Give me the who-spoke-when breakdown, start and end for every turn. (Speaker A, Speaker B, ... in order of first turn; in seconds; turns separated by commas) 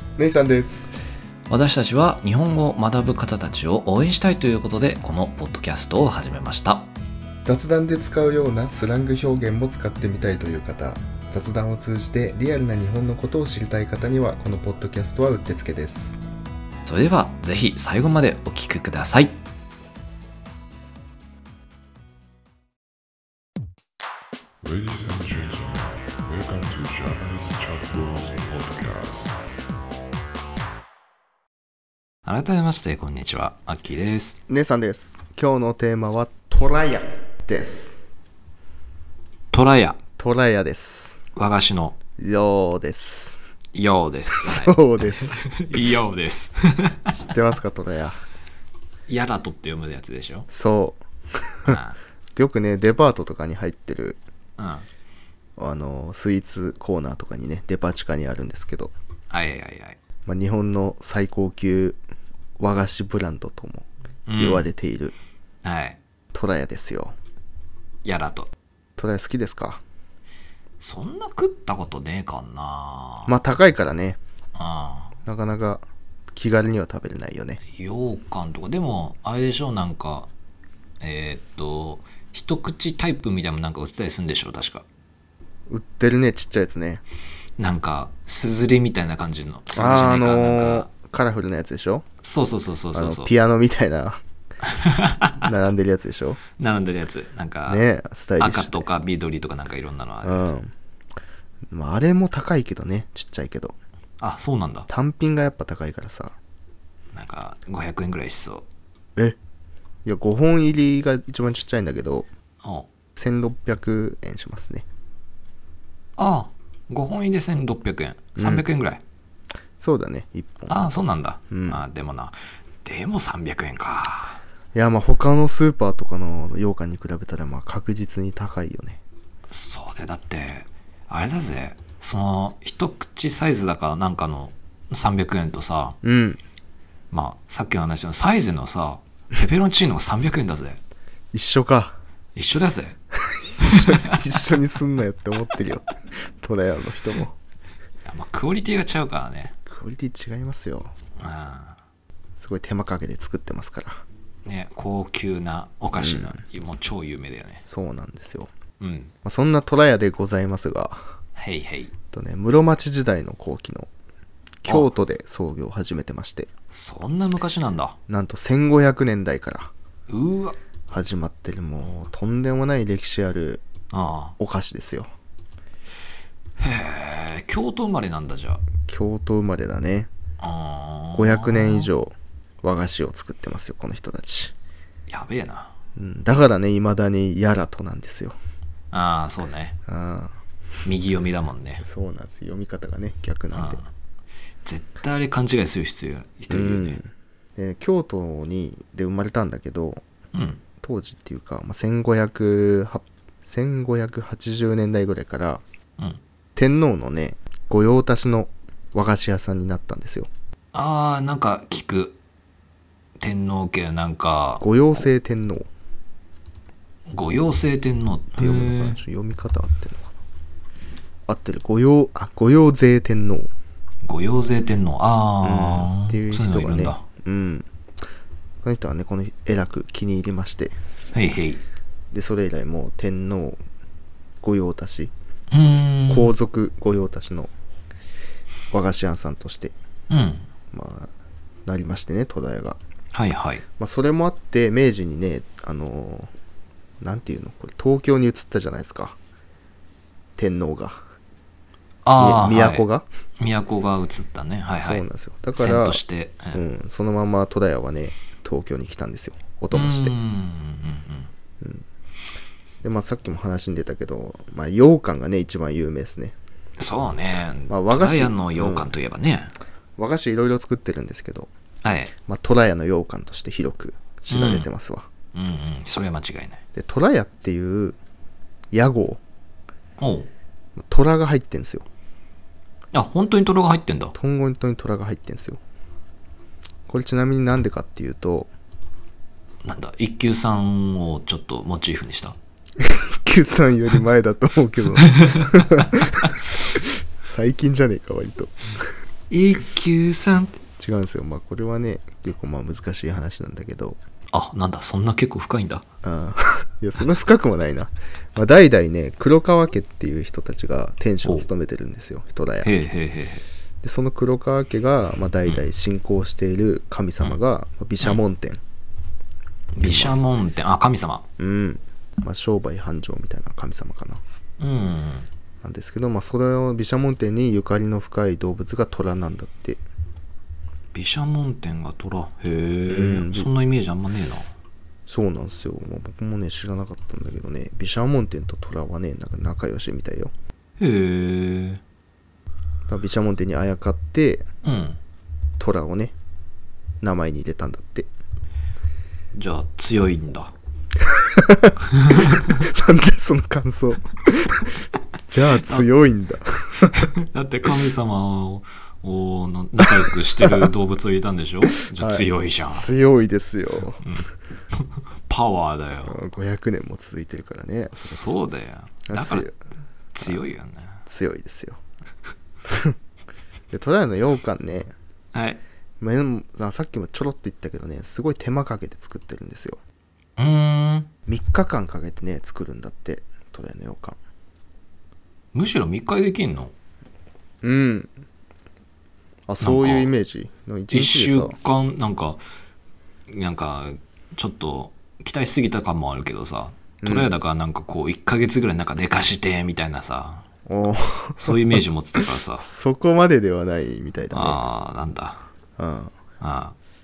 Speaker A: 0.2-0.9, Speaker B: 1.5-6.9, Speaker A: 7.4-16.2, Speaker B: 16.9-19.4, Speaker C: 24.6-29.4, Speaker B: 32.2-34.4, Speaker A: 34.5-38.0, Speaker B: 39.5-40.0, Speaker A: 40.2-41.2, Speaker B: 41.3-42.0, Speaker A: 42.2-43.4, Speaker B: 43.7-47.1, Speaker A: 44.3-45.4, Speaker A: 47.1-48.2, Speaker B: 49.1-50.5, Speaker A: 50.5-51.0, Speaker B: 51.6-52.0, Speaker A: 52.3-54.2, Speaker B: 54.6-54.9, Speaker A: 55.6-58.9, Speaker B: 59.3-60.0, Speaker A: 60.2-62.0, Speaker A: 62.6-63.9, Speaker B: 64.3-64.7, Speaker A: 64.4-65.1, Speaker B: 65.6-66.0, Speaker A: 66.3-67.1, Speaker B: 68.0-68.5, Speaker A: 69.0-69.8, Speaker B: 70.8-73.3, Speaker A: 73.3-74.2, Speaker B: 74.5-75.1, Speaker A: 75.2-77.6, Speaker B: 77.6-80.3, Speaker B: 81.0-84.8, Speaker A: 85.7-87.0, Speaker B: 87.6-90.9, Speaker A: 89.7-92.0, Speaker B: 92.2-93.3, Speaker A: 92.9-94.2, Speaker B: 94.6-95.4, Speaker A: 95.4-96.4, Speaker B: 96.6-97.8, Speaker A: 97.7-98.9, Speaker B: 98.4-100.5, Speaker A: 100.2-100.7, Speaker A: 101.7-103.8, Speaker B: 104.2-104.9, Speaker A: 104.9-106.3, Speaker B: 107.1-108.7, Speaker A: 110.0-112.3, Speaker B: 112.6-112.9, Speaker A: 113.2-114.8, Speaker B: 116.2-119.0, Speaker A: 118.4-118.6, Speaker A: 119.8-120.9, Speaker B: 120.7-124.4, Speaker A: 121.5-121.8, Speaker A: 124.7-129.0, Speaker B: 129.5-136.0, Speaker A: 136.0-136.4, Speaker B: 137.1-140.8, Speaker A: 141.3-141.9, Speaker B: 142.3-142.9, Speaker A: 143.1-147.3, Speaker B: 143.6-144.4, Speaker B: 148.0-149.5, Speaker A: 149.7-150.9, Speaker B: 151.2-151.8, Speaker A: 152.4-154.0, Speaker B: 154.4-157.6, Speaker A: 156.0-156.4, Speaker A: 157.7-158.5, Speaker B: 158.8-159.1, Speaker A: 159.2-161.0, Speaker B: 161.3-161.9, Speaker A: 162.1-163.9, Speaker A: 164.6-166.5, Speaker B: 164.7-164.9, Speaker B: 166.7-167.9, Speaker A: 168.1-169.7, Speaker B: 170.1-170.6, Speaker A: 170.9-173.6, Speaker B: 173.9-174.3, Speaker A: 174.4-175.1, Speaker B: 176.6-178.6, Speaker A: 178.9-180.1, Speaker B: 180.4-181.9, Speaker A: 181.1-184.5, Speaker B: 185.1-185.7, Speaker A: 185.9-188.3, Speaker B: 188.9-189.8, Speaker A: 189.9-190.3, Speaker B: 190.8-191.8, Speaker A: 191.8-193.8, Speaker B: 193.5-193.9, Speaker B: 194.6-197.0, Speaker A: 196.5-200.0, Speaker B: 200.3-200.6, Speaker A: 200.8-205.6, Speaker A: 206.6-210.3, Speaker B: 210.7-212.2, Speaker B: 213.2-214.6, Speaker A: 214.6-215.7, Speaker B: 217.1-219.0, Speaker A: 218.4-220.2, Speaker A: 221.3-223.5, Speaker B: 224.0-227.0, Speaker A: 225.4-227.7, Speaker A: 228.6-230.7, Speaker B: 231.1-231.6, Speaker A: 232.1-233.6, Speaker A: 234.4-235.1, Speaker B: 235.5-236.3, Speaker A: 236.1-237.5, Speaker A: 238.7-239.7, Speaker B: 240.1-240.5, Speaker A: 240.7-241.1, Speaker A: 241.7-242.8, Speaker B: 243.1-243.6, Speaker A: 243.8-246.3, Speaker A: 247.0-249.2, Speaker A: 250.3-251.0, Speaker B: 252.0-252.9, Speaker A: 252.2-253.1, Speaker B: 253.4-256.6, Speaker A: 254.8-256.0, Speaker A: 256.5-260.1, Speaker B: 259.7-261.3, Speaker A: 262.8-266.4, Speaker B: 266.8-269.5, Speaker A: 267.7-268.9, Speaker A: 270.0-271.5, Speaker B: 271.8-272.1, Speaker A: 272.3-275.1, Speaker B: 274.3-274.7, Speaker B: 275.3-276.6, Speaker A: 276.7-278.0, Speaker A: 278.7-279.2, Speaker B: 280.0-280.3, Speaker A: 280.8-281.9, Speaker B: 282.9-284.1, Speaker A: 284.1-285.6, Speaker A: 286.9-288.5, Speaker B: 289.6-292.4, Speaker A: 292.8-298.8, Speaker B: 295.1-296.3, Speaker B: 299.3-300.6, Speaker A: 300.8-304.0, Speaker B: 304.3-305.8, Speaker A: 306.0-312.8, Speaker B: 312.6-313.4, Speaker A: 313.8-318.6, Speaker B: 319.7-321.2, Speaker A: 319.8-320.1, Speaker A: 321.4-324.2, Speaker B: 324.6-325.3, Speaker A: 325.6-329.8, Speaker B: 330.9-334.5, Speaker A: 332.9-333.5, Speaker A: 335.1-340.3, Speaker B: 340.8-341.8, Speaker A: 342.9-344.4, Speaker B: 344.6-345.0, Speaker A: 345.6-346.1, Speaker A: 347.0-348.1, Speaker B: 349.3-350.5, Speaker A: 351.2-354.7, Speaker B: 351.9-352.6, Speaker A: 355.3-357.1, Speaker B: 357.0-362.9, Speaker A: 361.9-364.0, Speaker B: 364.0-366.2, Speaker A: 366.1-368.3, Speaker B: 367.9-369.5, Speaker A: 369.1-369.6, Speaker B: 370.1-371.0, Speaker A: 371.1-371.8, Speaker A: 372.6-372.9, Speaker A: 373.7-374.9, Speaker B: 375.3-375.6, Speaker A: 376.0-379.8, Speaker B: 380.4-381.1, Speaker A: 381.3-384.2, Speaker B: 385.5-386.7, Speaker A: 387.6-388.1, Speaker A: 389.5-391.6, Speaker B: 389.6-390.1, Speaker B: 390.9-392.4, Speaker B: 393.3-400.4, Speaker A: 397.0-397.3, Speaker A: 400.7-404.6, Speaker B: 401.4-402.6, Speaker B: 404.3-405.4, Speaker A: 405.8-406.1, Speaker B: 406.4-406.8